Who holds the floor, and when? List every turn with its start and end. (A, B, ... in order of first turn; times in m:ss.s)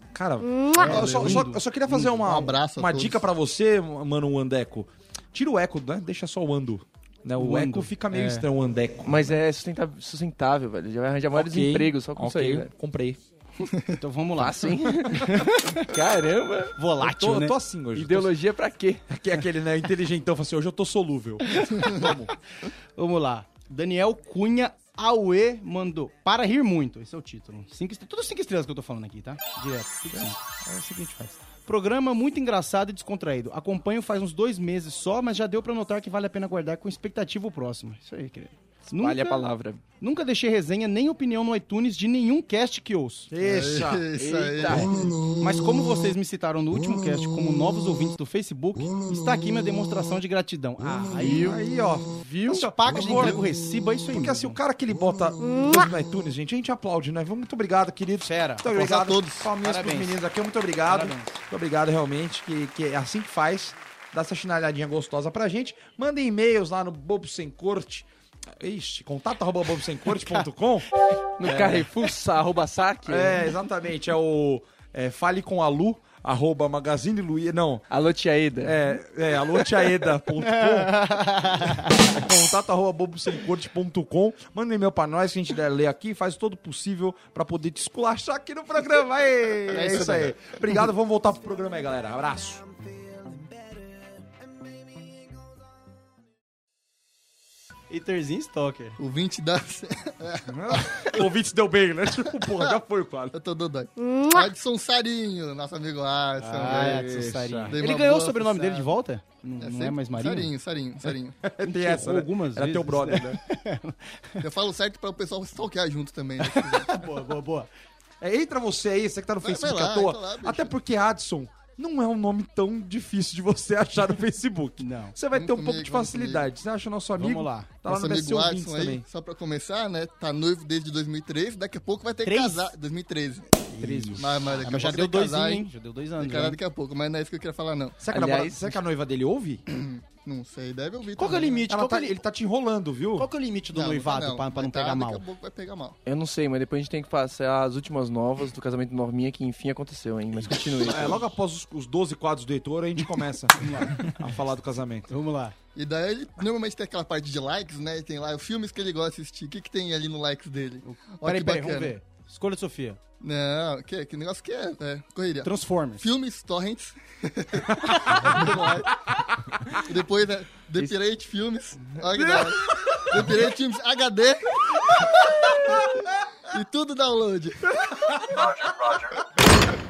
0:00.1-0:09.3 A
0:00.7-0:01.6 B
0:00.8-0:03.2 C
0:07.4-0:08.5 B
0:09.0-0:12.7 D
0:11.3-0:13.2 A
0:14.0-0:15.8 B
0:14.4-0:16.7 D
0:16.8-0:17.6 B
0:17.0-0:18.3 A
0:17.9-0:19.0 D
0:19.1-0:22.3 A
0:23.0-0:30.4 B
0:30.1-0:31.4 A
0:31.6-0:39.4 B
0:39.0-0:39.8 D
0:40.0-0:43.3 B
0:43.3-0:44.0 A
0:43.4-0:45.1 C
0:44.2-0:45.1 D
0:45.4-0:51.6 B
0:51.2-0:51.6 D
0:51.2-0:53.4 A
0:52.2-0:52.7 D
0:52.5-0:54.6 B
0:54.1-1:10.9 A
0:58.2-0:58.7 B
0:58.7-0:59.6 C
0:59.6-1:00.2 B
1:00.9-1:01.3 B
1:11.4-1:13.5 D
1:11.4-1:11.9 A
1:13.0-1:17.8 A
1:17.9-1:18.8 D
1:18.6-1:32.6 A
1:20.4-1:21.9 B
1:29.9-1:30.3 C
1:37.9-1:39.0 B
1:39.0-1:41.1 C
1:40.5-1:43.4 A
1:43.3-1:47.1 C
1:46.4-1:50.5 B
1:46.6-1:47.8 A
1:47.7-1:48.9 C
1:49.6-1:51.4 C
1:51.0-1:53.4 A
1:51.6-1:54.4 B
1:54.4-1:56.9 C
1:56.4-1:57.7 B
1:58.2-2:09.0 A
1:59.4-2:00.7 C
2:04.8-2:05.2 B
2:05.3-2:06.5 C
2:07.2-2:07.7 B
2:07.8-2:18.0 C
2:12.2-2:12.8 B
2:13.7-2:16.6 B
2:13.8-2:14.2 A
2:18.0-2:19.6 A
2:18.1-2:18.8 D
2:19.7-2:21.7 C
2:21.2-2:22.2 B
2:21.7-2:23.3 A
2:23.2-2:25.2 B
2:23.7-2:26.0 C
2:26.0-2:31.3 D
2:30.8-2:35.1 A
2:33.0-2:34.2 B
2:35.1-2:35.5 B
2:35.7-2:42.0 C
2:40.8-2:43.0 B
2:43.2-2:49.0 C
2:45.4-2:46.0 B
2:49.7-2:55.8 C
2:52.2-2:53.0 A
2:56.5-2:58.0 C
2:58.2-2:59.2 A